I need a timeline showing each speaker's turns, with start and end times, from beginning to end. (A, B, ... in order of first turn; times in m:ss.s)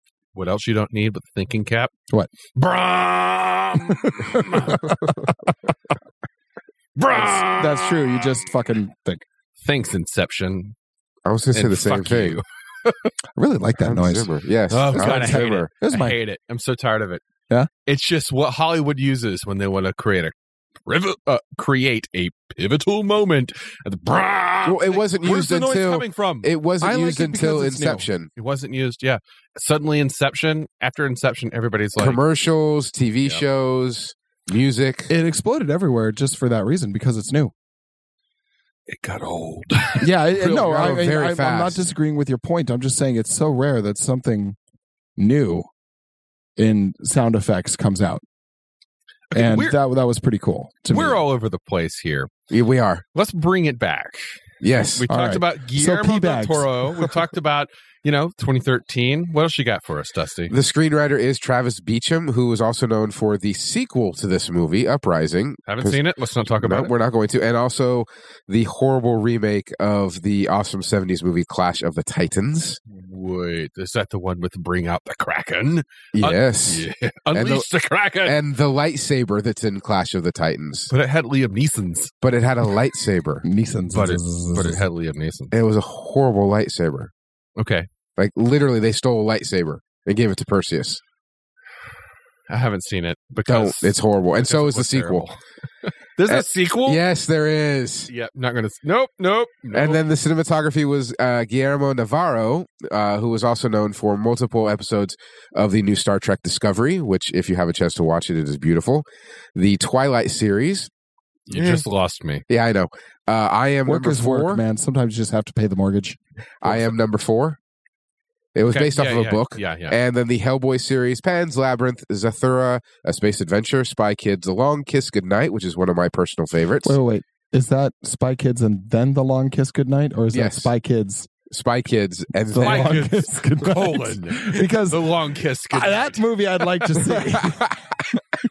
0:00.3-0:01.9 A
0:02.5-0:05.0 A
0:04.0-0:05.0 B
0:07.0-0:08.2 A
0:07.1-0:09.2 B
0:09.6-0:10.7 A
0:11.2-0:12.4 C
0:11.5-0:13.1 A
0:13.4-0:14.3 B
0:13.8-0:15.7 C
0:14.7-0:17.2 A
0:14.9-0:16.2 B
0:17.8-0:20.3 A
0:20.8-0:26.5 A
0:24.6-0:28.3 C
0:26.8-0:28.0 B
0:28.4-0:32.2 A
0:32.0-0:35.1 C
0:35.1-0:37.5 B
0:38.9-0:40.1 A
0:40.0-0:44.6 B
0:40.4-0:41.8 C
0:45.2-0:45.7 B
0:46.6-0:48.2 B
0:49.3-0:49.8 A
0:49.3-0:51.2 B
0:50.9-0:52.3 A
0:52.5-0:53.0 C
0:53.1-0:54.4 A
0:54.6-0:55.0 C
0:55.0-1:00.5 A
0:55.1-0:57.1 B
1:00.5-1:06.0 C
1:05.7-1:06.9 A
1:06.6-1:12.8 C
1:12.9-1:18.4 A
1:16.1-1:17.6 C
1:18.2-1:20.9 C
1:20.9-1:22.1 A
1:22.2-1:23.4 C
1:23.4-1:24.8 B
1:23.9-1:25.5 A
1:25.5-1:27.1 C
1:27.6-1:27.9 A
1:28.2-1:31.0 C
1:32.5-1:37.0 A
1:33.5-1:35.2 C
1:36.3-1:38.1 C
1:38.1-1:40.0 A
1:39.7-1:50.9 C
1:51.5-1:52.4 A
1:51.5-1:51.8 C
1:52.5-1:54.6 C
1:53.8-1:56.2 B
1:56.6-1:57.6 C
1:58.5-2:07.0 C
1:58.7-2:00.0 A
2:06.8-2:11.3 B
2:10.3-2:10.7 C
2:11.5-2:13.0 C
2:12.5-2:15.1 B
2:12.6-2:16.2 A
2:15.7-2:17.7 B
2:17.4-2:17.8 C